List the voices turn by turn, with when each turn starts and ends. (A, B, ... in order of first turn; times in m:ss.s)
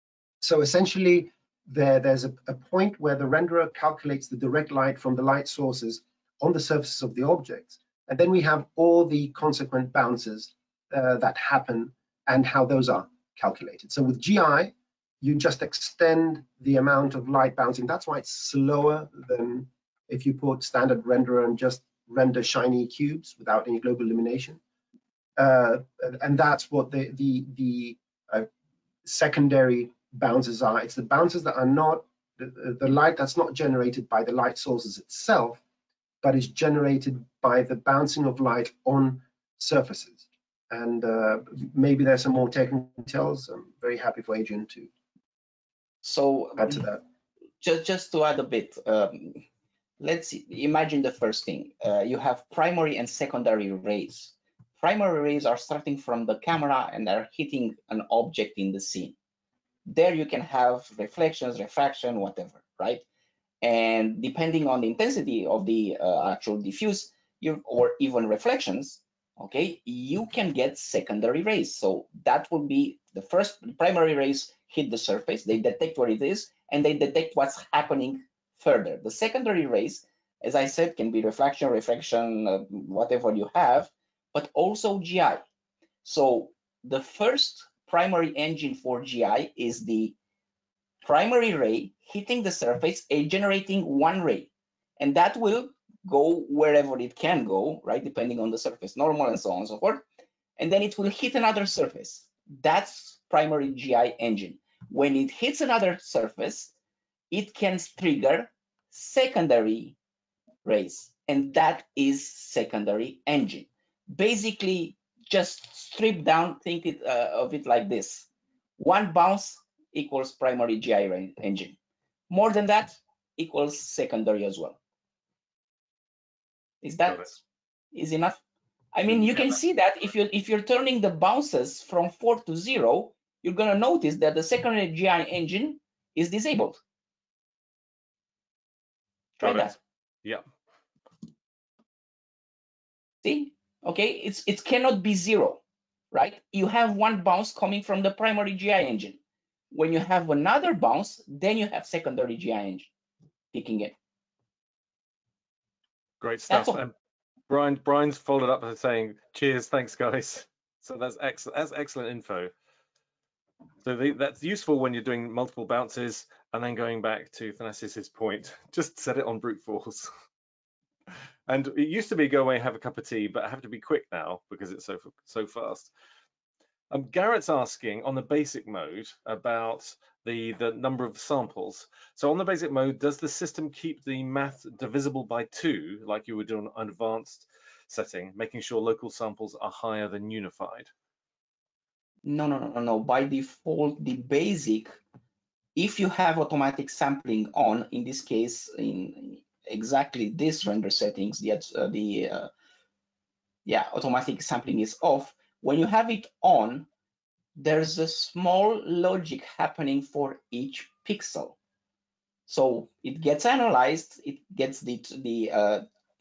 0:00.4-0:24.6 A
0:25.4-0:28.5 A
0:29.0-0:35.6 A
0:36.2-0:44.9 A
0:46.0-0:46.9 B
0:46.6-0:47.0 A
0:47.6-0:49.4 B
0:50.0-0:59.2 B
0:59.8-1:03.0 B
1:03.6-1:25.4 B
1:26.0-1:30.1 B
1:31.0-1:40.0 B
1:40.6-1:46.7 B
1:47.3-1:50.0 B
1:50.6-2:01.8 B
2:02.3-2:04.8 B
2:06.8-2:07.4 B
2:07.9-2:08.4 B
2:08.9-2:16.8 B
2:19.4-2:19.8 B
2:19.4-2:19.7 C
2:23.2-2:25.6 B
2:26.1-2:29.2 B
2:29.7-2:32.9 B
2:33.5-2:33.9 B
2:36.2-2:36.9 C
2:36.5-2:36.8 B
2:37.5-2:42.5 C
2:43.8-2:50.1 C
2:51.5-2:55.9 C
2:56.9-3:10.9 C
3:12.2-3:15.0 B
3:15.8-3:22.5 B
3:23.6-3:26.9 B
3:27.6-3:31.6 B
3:32.5-3:35.8 B